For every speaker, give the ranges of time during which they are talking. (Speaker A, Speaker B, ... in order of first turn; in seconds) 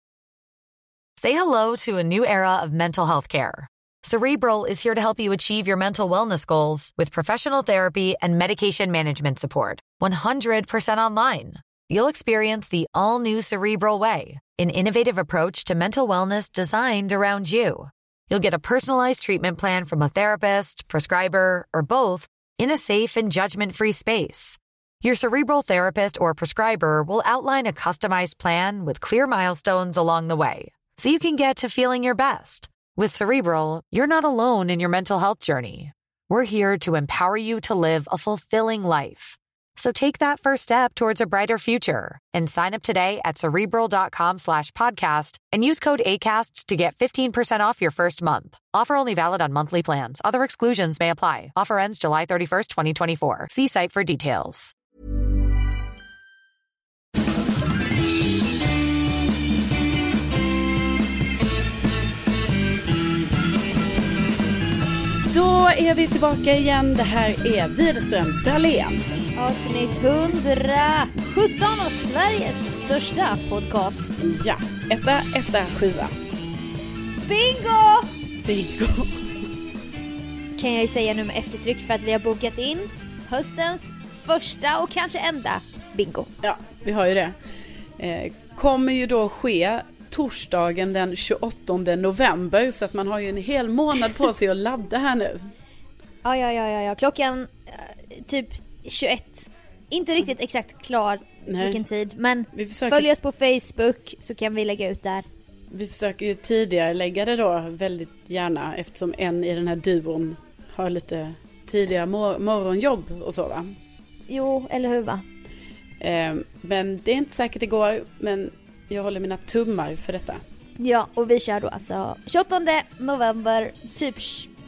Speaker A: 1.2-54.7
Speaker B: 65.3-69.1, 74.2-76.2, 78.4-79.4, 86.4-87.4, 88.0-95.5, 101.5-101.8, 102.5-103.1, 105.7-113.8, 116.0-120.4
Speaker C: 69.4-74.1, 77.2-78.1, 80.6-86.3, 96.2-105.3, 114.3-115.2, 120.8-124.5